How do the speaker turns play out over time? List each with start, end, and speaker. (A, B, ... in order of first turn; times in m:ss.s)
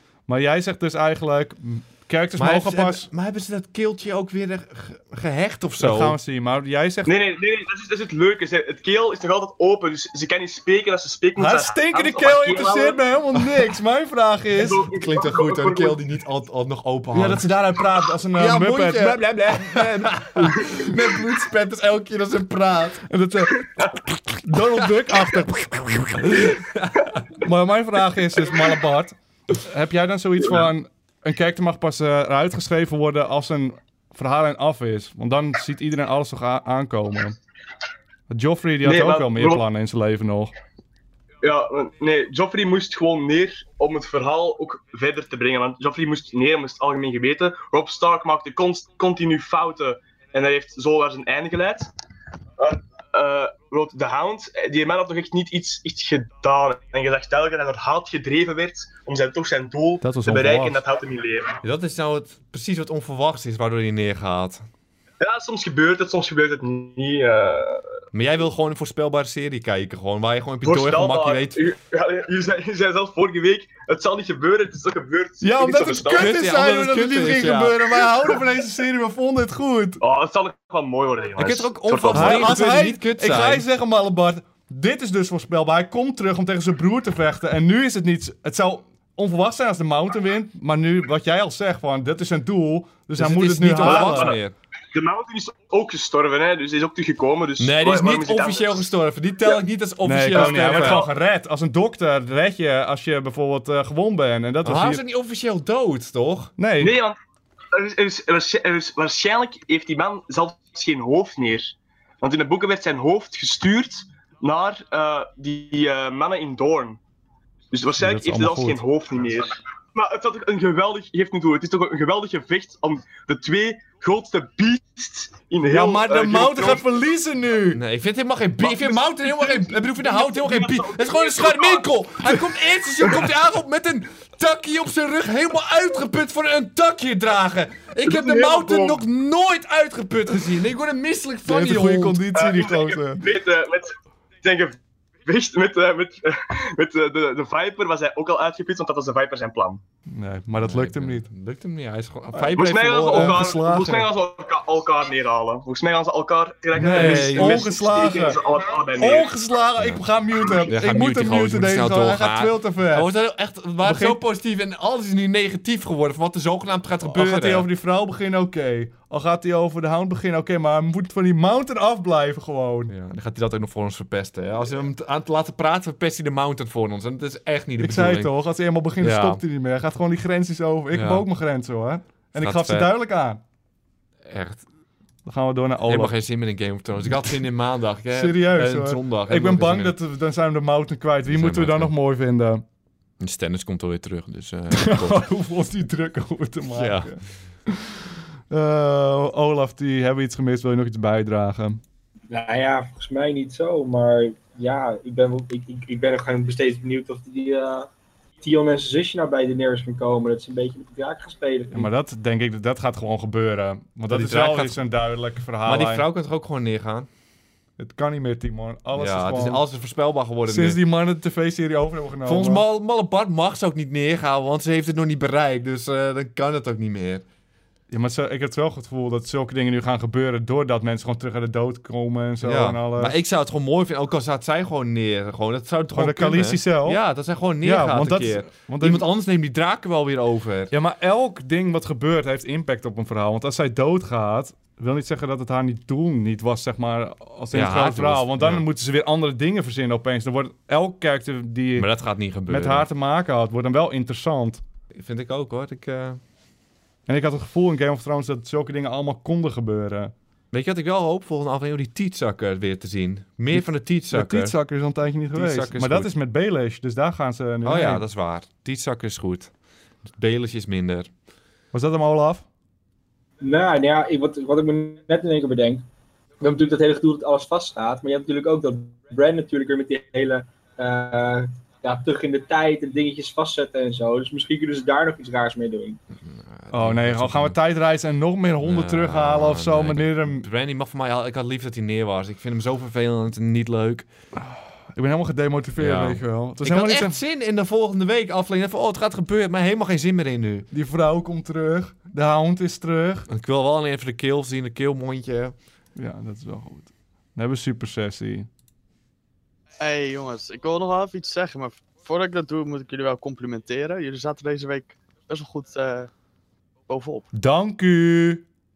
0:00.3-0:03.0 A
0:02.4-0:06.2 B
0:05.8-0:07.2 A
0:07.0-0:13.0 C
0:11.4-0:14.8 A
0:14.5-0:16.0 C
0:14.8-0:17.5 B
0:17.1-0:20.5 A
0:18.3-0:23.0 B
0:23.1-0:26.3 A
0:25.7-0:27.2 B
0:27.4-0:37.4 A
0:38.3-0:40.5 A
0:38.8-0:39.6 C
0:41.4-0:51.9 C
0:52.6-1:01.6 C
1:00.0-1:00.8 A
1:01.6-1:04.6 B
1:05.2-1:07.8 C
1:08.1-1:11.6 B
1:10.6-1:16.3 C
1:15.4-1:20.0 A
1:16.1-1:18.3 B
1:20.0-1:22.6 C
1:21.4-1:23.6 B
1:22.1-1:34.4 A
1:33.2-1:34.5 B
1:33.8-1:34.4 C
1:34.9-1:38.9 C
1:37.6-1:41.0 B
1:40.0-1:45.0 A
1:40.3-1:41.1 C
1:44.6-1:46.5 B
1:46.6-1:47.0 A
1:46.8-1:47.2 C
1:47.7-1:57.0 C
1:57.7-2:06.8 C
1:58.0-1:58.8 A
2:05.6-2:07.8 A
2:07.7-2:22.2 B
2:08.6-2:11.9 C
2:18.0-2:19.0 C
2:21.4-2:23.2 A
2:22.3-2:29.8 C
2:30.1-2:31.3 A
2:30.6-2:33.4 B
2:32.3-2:34.1 A
2:32.6-2:39.3 C
2:36.7-2:38.4 A
2:36.8-2:37.7 B
2:39.0-2:43.1 A
2:39.8-2:40.0 B
2:40.7-2:47.7 B
2:43.8-2:44.2 A
2:47.1-2:52.9 A
2:52.9-2:58.3 B
2:57.8-3:03.4 A
2:59.0-2:59.4 B
3:00.9-3:01.2 B
3:02.4-3:02.9 B
3:04.2-3:04.6 B
3:05.2-3:06.2 A
3:05.9-3:10.0 B
3:08.1-3:12.6 A
3:11.2-3:11.9 B
3:13.2-3:15.3 B
3:14.7-3:17.9 A
3:16.7-3:17.2 B
3:18.5-3:21.8 A
3:22.3-3:27.9 D
3:28.4-3:31.9 D
3:31.7-3:36.1 A
3:34.1-3:34.8 B
3:35.6-3:37.1 B
3:37.8-3:39.6 A
3:38.9-3:40.8 B
3:40.4-3:42.6 A
3:42.2-3:47.2 B
3:47.9-3:53.2 A
3:52.4-4:00.7 B
3:55.9-3:57.0 A
3:57.6-3:59.0 A
4:00.7-4:11.9 A
4:07.5-4:08.6 B
4:11.8-4:12.9 B
4:12.5-4:14.6 A
4:14.9-4:16.2 B
4:17.1-4:20.1 A
4:20.5-4:24.6 B
4:23.5-4:28.0 A
4:25.3-4:26.1 B
4:27.6-4:29.5 B
4:30.1-4:31.1 B
4:31.7-4:32.4 A
4:33.4-4:35.8 D
4:36.4-4:46.0 D
4:46.2-4:47.6 B
4:46.7-4:50.5 A
4:48.6-4:54.1 B
4:54.4-4:57.2 A
4:55.8-5:00.7 B
5:00.7-5:03.3 A
5:03.3-5:05.5 B
5:06.0-5:08.5 A
5:09.8-5:16.1 E
5:16.9-5:17.3 E
5:17.3-5:18.4 A